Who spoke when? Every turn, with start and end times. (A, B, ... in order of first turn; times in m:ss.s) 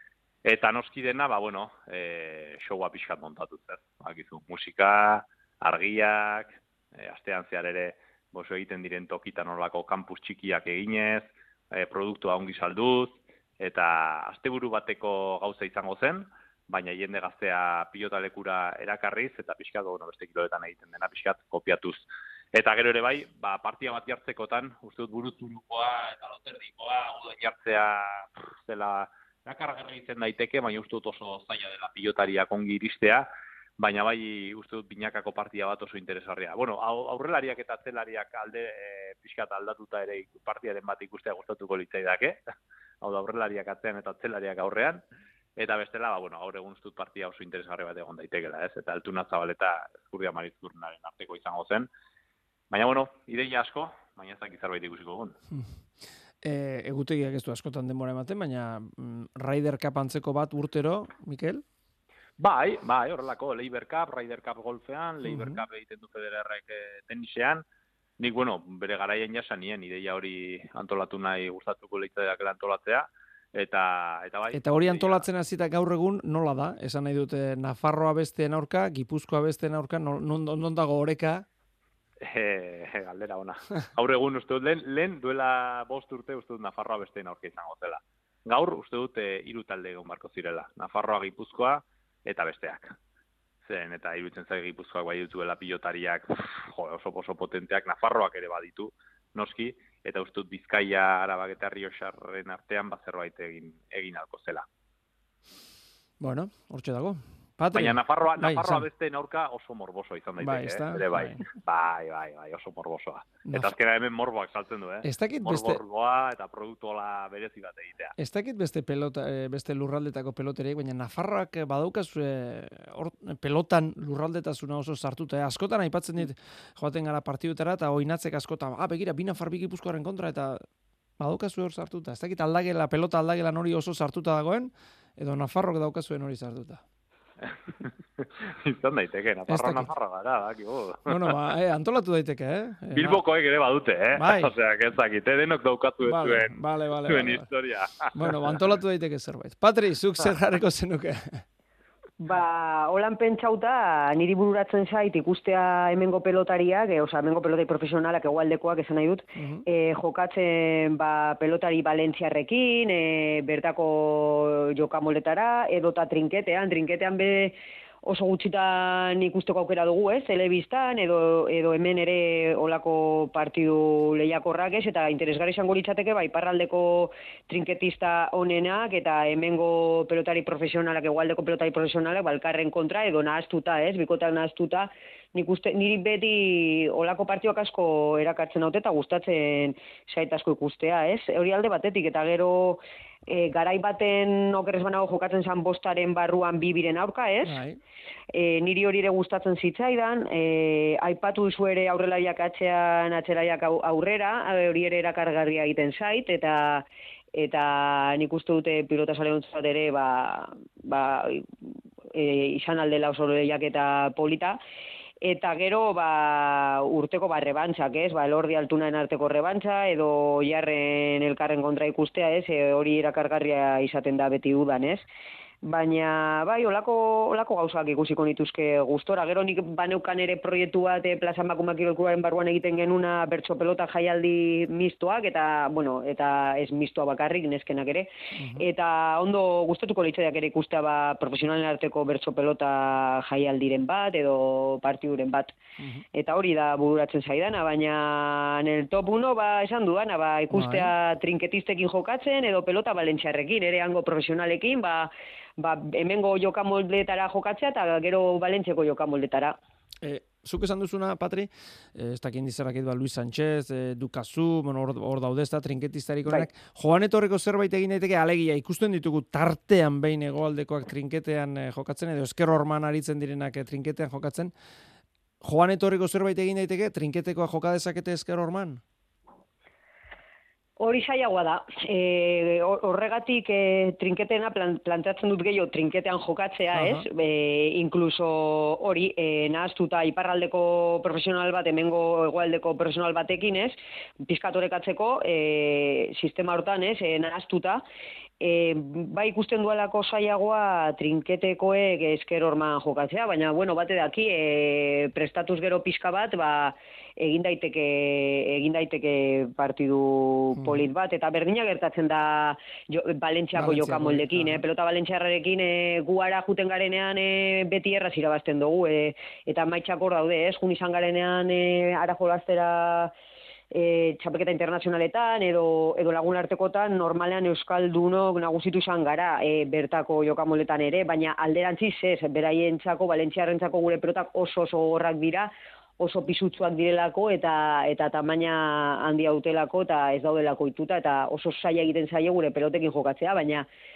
0:00.4-0:42.4 A
0:43.0-0:45.0 A
0:45.6-0:51.9 A
0:52.7-0:55.4 A
0:56.4-1:01.6 B
1:02.4-1:07.6 A
1:05.2-1:05.6 B
1:08.2-1:15.3 A
1:14.5-1:21.4 B
1:22.2-1:33.0 A
1:33.6-1:44.7 A
1:46.2-1:48.9 B
1:47.7-1:58.1 A
1:50.4-1:51.4 B
1:55.0-1:55.8 B
1:58.2-2:10.6 B
2:11.2-2:16.8 B
2:17.4-2:21.4 A
2:19.5-2:19.9 B
2:21.1-2:23.2 B
2:22.9-2:28.6 A
2:24.2-2:24.5 B
2:26.0-2:27.5 B
2:28.2-2:31.4 B
2:32.2-3:17.6 C
2:39.4-2:39.6 B
3:17.4-3:17.8 B
3:18.3-3:31.5 C
3:32.1-3:34.6 C
3:35.2-3:45.0 C
3:45.6-4:05.5 C
3:58.4-3:58.6 B
4:05.8-4:06.0 B
4:06.1-4:19.6 C
4:10.5-4:10.9 B
4:20.0-4:34.5 B
4:35.4-4:38.8 B
4:40.8-4:57.8 C
4:46.7-4:47.1 B
4:58.4-5:23.1 C
5:10.6-5:10.9 B
5:13.6-5:14.6 B
5:23.7-5:43.7 C